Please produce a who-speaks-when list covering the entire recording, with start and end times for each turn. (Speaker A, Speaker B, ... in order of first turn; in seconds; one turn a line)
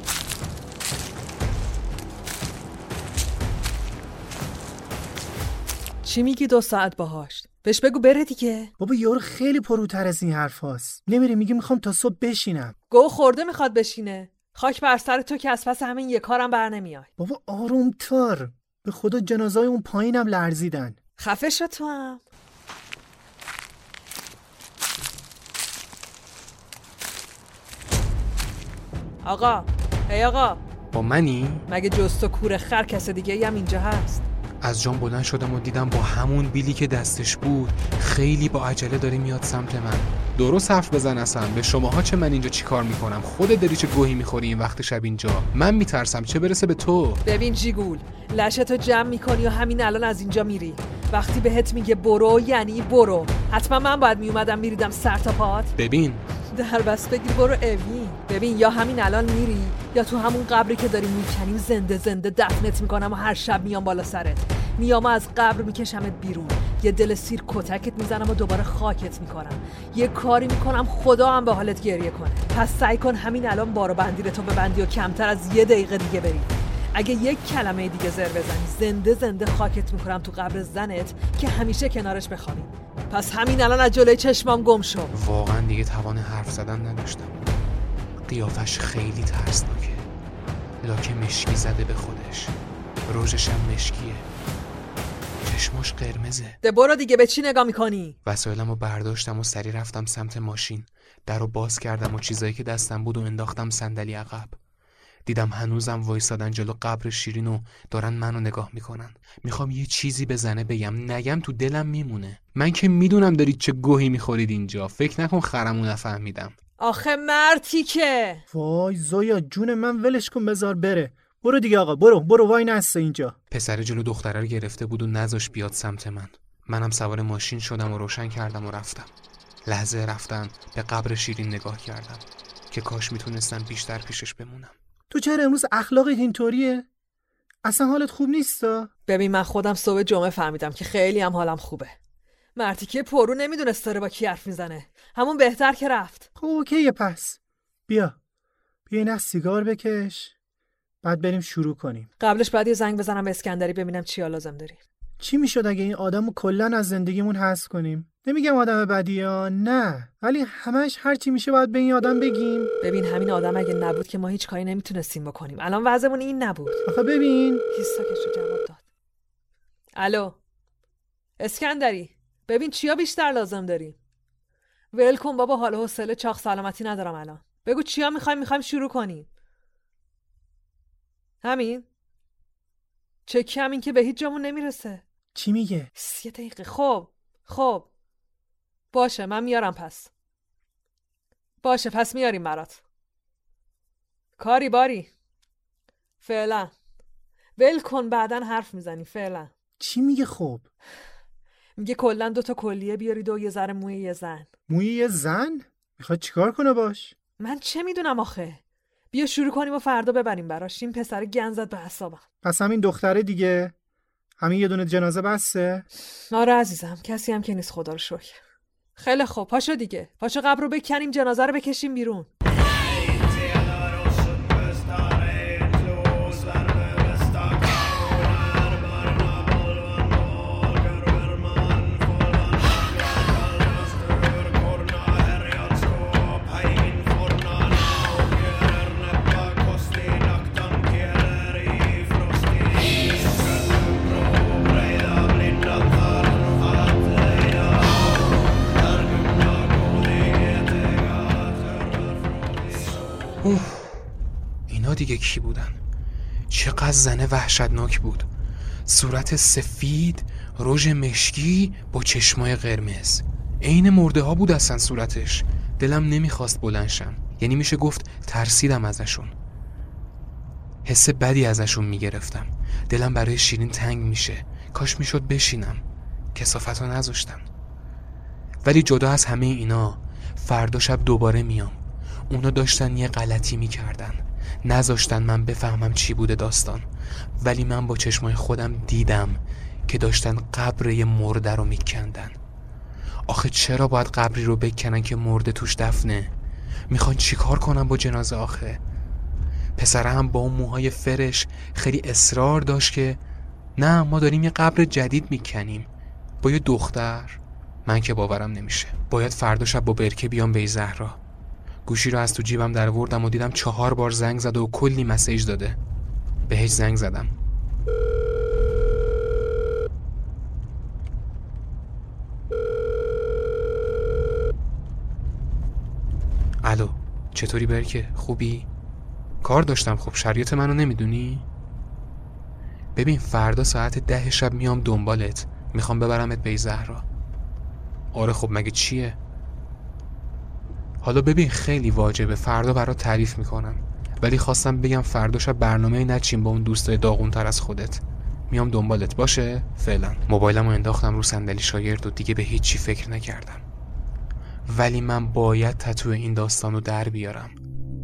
Speaker A: 6.0-8.7
Speaker B: 8.8-12.7
Speaker A: 12.9-17.1
Speaker B: 17.2-20.9
Speaker A: 21.2-22.2
Speaker A: 29.2-30.6
Speaker C: 30.9-31.6
Speaker A: 31.7-34.2
Speaker C: 34.6-47.2
Speaker A: 47.2-55.7
Speaker C: 55.8-56.2
Speaker A: 56.5-85.1
Speaker C: 85.1-87.4
Speaker C: 88.2-90.1
Speaker C: 90.8-92.5
Speaker C: 93.1-94.3
Speaker C: 95.4-96.6
Speaker A: 96.6-98.2
Speaker C: 98.2-104.6
Speaker C: 105.2-116.5
Speaker A: 116.8-118.4
Speaker B: 118.5-123.3
Speaker C: 123.5-129.1
Speaker C: 129.6-134.8
Speaker B: 135.1-136.9
Speaker B: 137.6-138.9
Speaker A: 139.1-141.9
Speaker A: 142.6-146.3
Speaker B: 146.4-148.2
Speaker B: 148.9-150.3
Speaker B: 151.0-152.1
Speaker A: 152.2-154.8
Speaker B: 155.2-162.7
Speaker A: 162.8-166.8
Speaker B: 166.8-167.6
Speaker A: 167.7-168.8
Speaker A: 170.0-170.4
Speaker A: 171.4-174.0
Speaker A: 174.9-179.3
Speaker A: 181.4-181.9
Speaker A: 183.2-185.0
Speaker B: 185.3-185.9
Speaker A: 185.9-187.9
Speaker A: 188.9-190.1
Speaker A: 191.6-192.8
Speaker A: 194.4-195.1
Speaker A: 196.2-196.7
Speaker A: 197.6-199.5
Speaker B: 199.8-200.7
Speaker A: 201.8-204.5
Speaker B: 204.7-207.1
Speaker A: 207.4-208.6
Speaker A: 209.1-212.2
Speaker B: 212.4-213.7
Speaker B: 214.4-215.8
Speaker A: 216.3-218.4
Speaker A: 219.0-222.3
Speaker A: 223.1-232.5
Speaker A: 233.8-240.6
Speaker A: 241.7-242.2
Speaker C: 253.4-254.1
Speaker C: 254.7-255.8
Speaker C: 256.5-258.3
Speaker C: 258.8-269.3
Speaker C: 270.8-277.5
Speaker C: 278.6-281.8
Speaker C: 282.3-286.9
Speaker C: 287.4-292.4
Speaker C: 293.3-296.3
Speaker C: 296.9-298.8
Speaker C: 299.8-303.2
Speaker C: 303.8-305.9
Speaker C: 306.4-311.2
Speaker C: 311.8-315.8
Speaker C: 316.5-317.3
Speaker C: 326.6-328.7
Speaker C: 329.4-331.5
Speaker C: 332.9-337.0
Speaker C: 338.1-339.2
Speaker C: 341.0-353.6
Speaker C: 354.7-357.6